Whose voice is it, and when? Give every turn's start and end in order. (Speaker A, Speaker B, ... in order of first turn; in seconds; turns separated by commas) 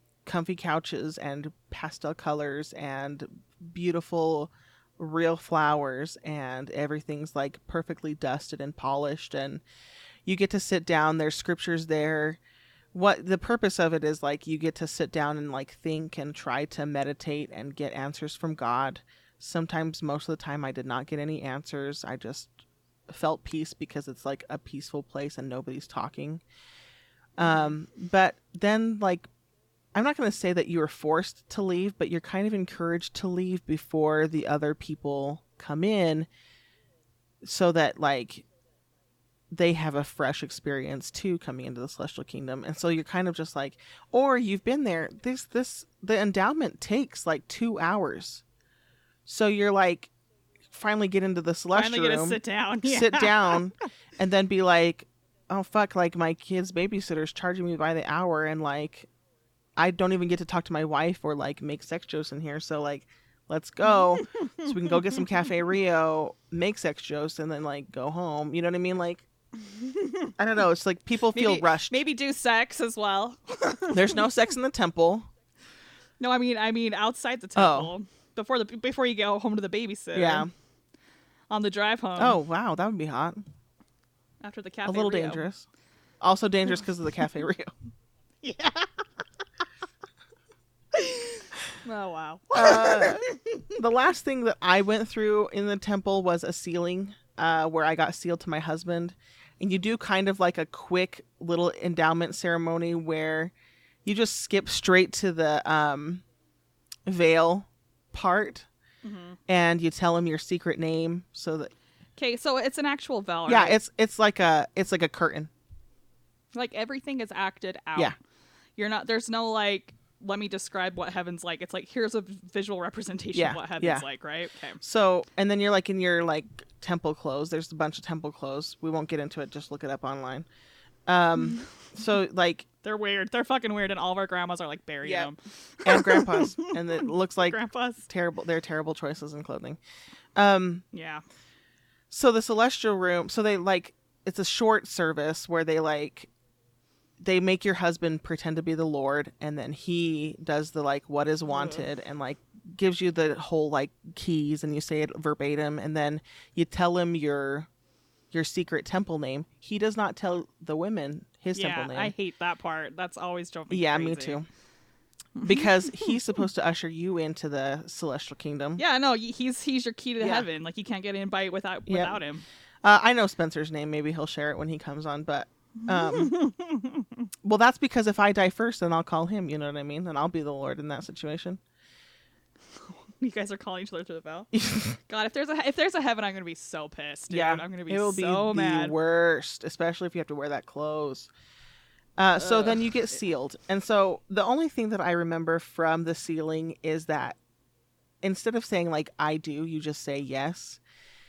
Speaker A: 0.2-9.6, Speaker A: 10.2-12.4, Speaker A: 12.9-22.5, Speaker A: 23.1-26.4, Speaker A: 27.4-29.3, Speaker B: 27.4-27.8, Speaker A: 29.9-36.3, Speaker A: 37.4-38.4, Speaker A: 39.5-48.4, Speaker A: 49.2-50.1, Speaker A: 50.7-59.1, Speaker B: 51.7-53.6, Speaker A: 59.8-69.2, Speaker B: 64.2-64.7, Speaker B: 69.6-70.3, Speaker A: 70.4-72.0, Speaker B: 71.3-74.2, Speaker A: 73.9-75.3, Speaker B: 76.2-80.5, Speaker A: 77.5-77.9, Speaker A: 80.1-80.5, Speaker B: 81.5-82.4, Speaker A: 82.2-83.4, Speaker B: 84.4-85.4, Speaker A: 84.8-85.7, Speaker A: 86.2-87.7, Speaker B: 88.4-89.0, Speaker B: 90.9-93.8, Speaker A: 92.5-103.5, Speaker A: 104.0-106.2, Speaker A: 107.0-108.7, Speaker B: 109.0-109.4, Speaker A: 109.5-111.7, Speaker B: 112.2-113.8, Speaker A: 113.5-115.5, Speaker B: 116.5-118.1, Speaker B: 118.8-124.8, Speaker A: 123.3-124.0, Speaker A: 124.8-130.4, Speaker A: 131.1-132.7, Speaker B: 131.4-131.7, Speaker B: 132.8-138.1, Speaker A: 135.0-135.3, Speaker A: 135.8-139.8, Speaker A: 140.3-140.8, Speaker B: 140.9-141.2, Speaker A: 142.1-146.3, Speaker A: 147.2-157.7, Speaker B: 151.5-151.8, Speaker A: 158.3-162.1, Speaker B: 161.5-164.4, Speaker A: 163.7-164.5, Speaker B: 165.4-166.1, Speaker A: 165.4-168.8, Speaker B: 168.8-172.4, Speaker A: 170.2-170.4, Speaker A: 171.9-172.2, Speaker A: 172.8-176.3, Speaker B: 175.8-177.3, Speaker A: 177.4-181.6, Speaker B: 182.8-184.5, Speaker A: 184.5-185.0, Speaker B: 185.1-188.9, Speaker A: 187.3-191.3, Speaker A: 192.2-197.4, Speaker B: 192.4-192.8, Speaker A: 198.2-200.8